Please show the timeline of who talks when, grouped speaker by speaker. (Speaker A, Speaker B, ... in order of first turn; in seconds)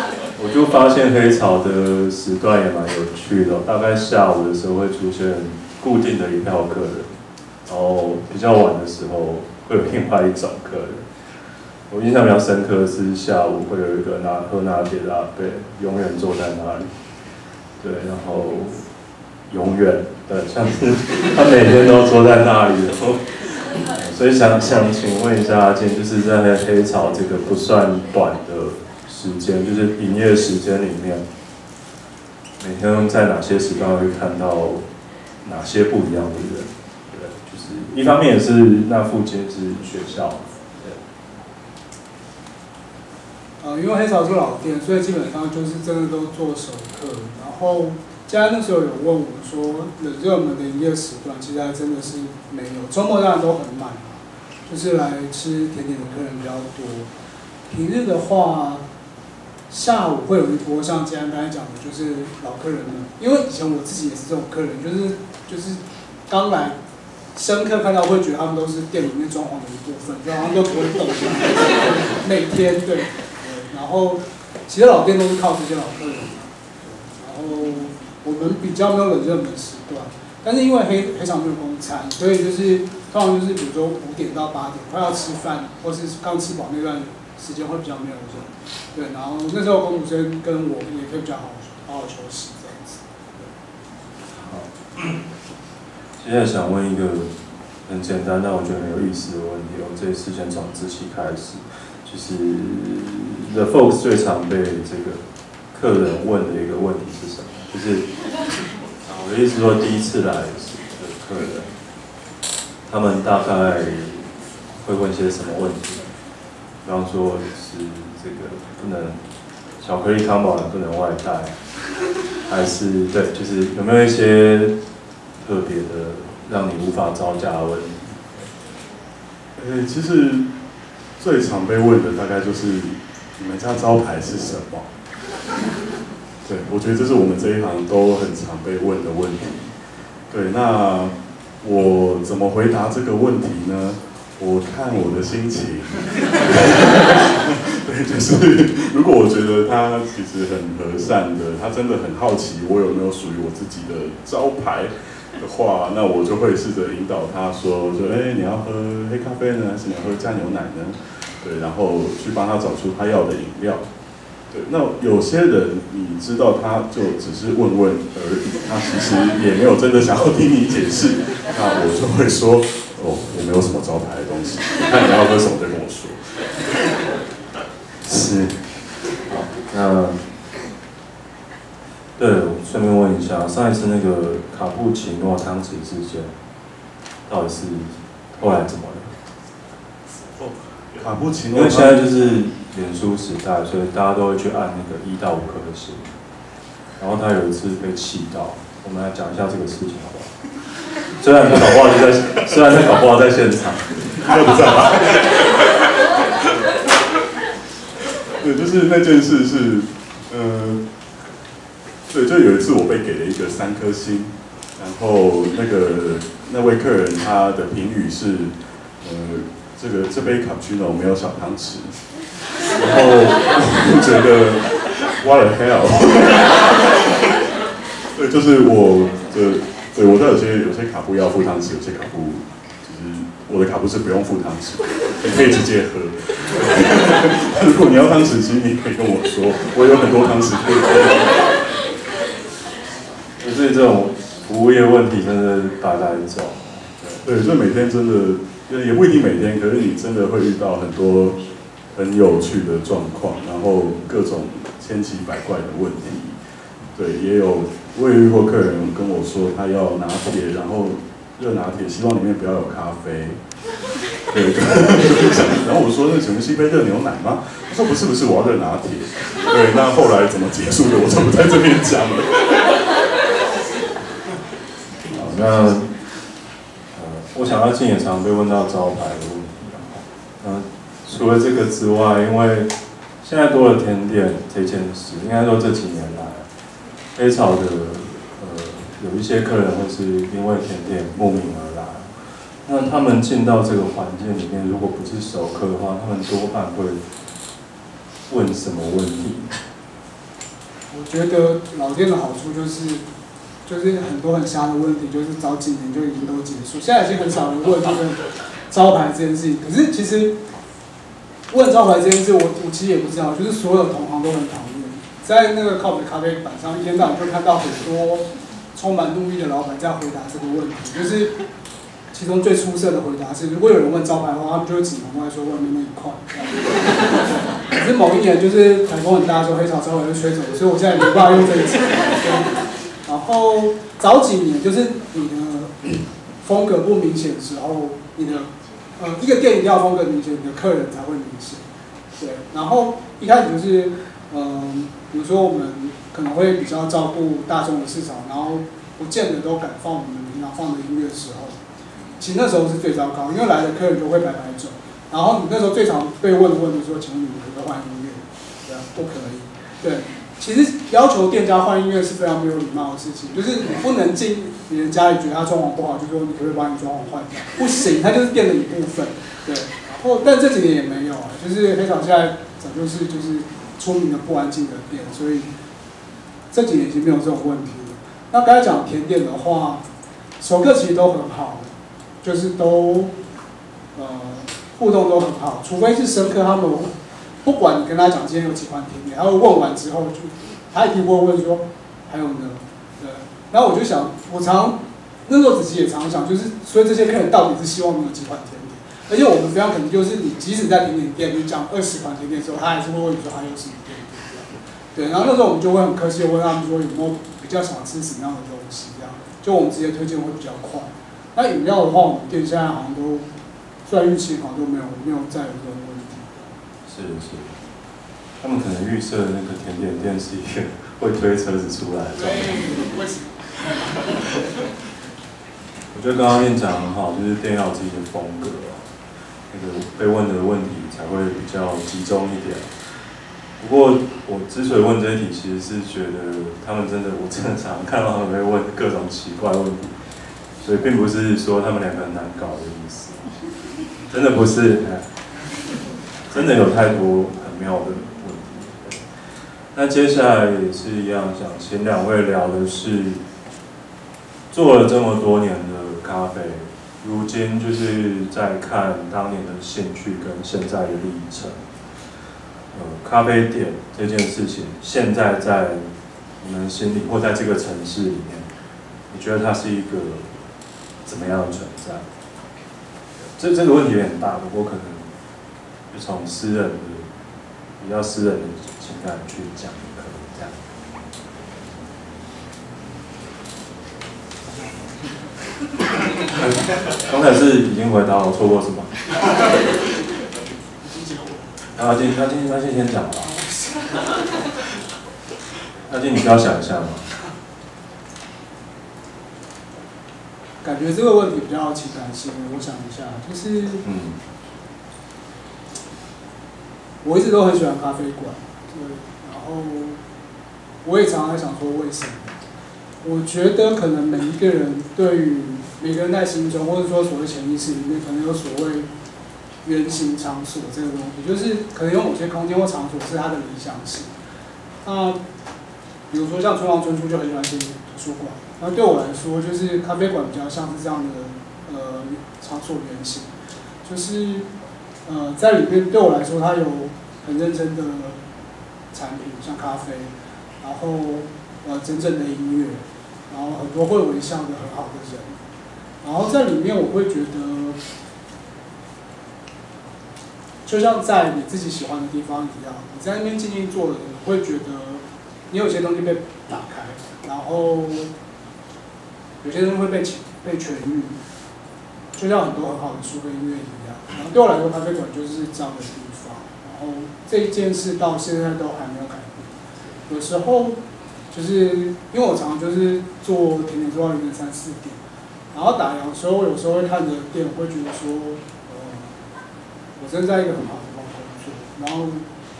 Speaker A: 0.3-11.1, 11.9-16.9, 17.8-18.8, 19.5-31.3, 32.6-34.9, 35.4-41.0, 94.3-94.7, 96.2-108.1, 109.0-111.8, 112.9-116.1, 116.8-119.2, 119.8-121.6, 122.5-124.8, 125.4-128.4, 178.1-178.5, 179.1-180.2, 182.2-186.3, 187.3-189.1, 191.5-196.2, 197.0-200.5, 201.1-204.0, 243.3-247.2, 275.1-276.1, 276.9-286.5, 287.1-297.0, 298.3-299.5, 416.9-417.5, 418.4-422.7, 425.9-428.9, 429.5-432.7, 433.6-440.0, 440.6-443.3, 444.0-445.1, 446.3-449.1, 449.7-453.2, 454.5-461.6, 462.7-465.9, 466.4-468.5, 469.1-470.4, 471.0-472.1, 473.3-475.1, 475.9-477.1, 477.8-480.6, 486.8-488.9, 491.7-493.3, 495.9-497.1, 503.8-504.2
Speaker B: 43.6-57.1, 57.7-58.9, 59.7-66.8, 67.3-93.4, 300.9-303.0, 303.6-310.4, 311.5-321.4, 322.1-327.0, 327.7-341.6, 342.2-351.6, 352.2-375.5, 376.5-379.8, 380.4-381.7, 382.2-383.1, 383.9-413.3, 413.8-416.5, 422.2-424.0, 490.9-491.4, 500.6-503.8, 507.0-510.0, 510.8-512.3, 513.0-518.9, 519.6-524.1, 524.8-525.2, 526.1-533.3, 533.8-534.5, 535.0-538.2, 538.9-545.4, 546.0-547.8, 550.6-558.1, 559.4-561.1, 562.1-569.5, 570.1-570.8, 571.3-575.0, 575.5-579.2, 580.0-582.3
Speaker C: 129.6-130.4, 131.2-134.9, 136.4-139.7, 140.3-163.9, 164.5-176.6, 178.2-178.4, 190.4-192.1, 204.1-205.7, 208.4-210.8, 212.1-222.0, 222.7-227.0, 228.1-241.6, 247.2-251.4, 251.9-256.4, 256.9-263.4, 264.3-272.8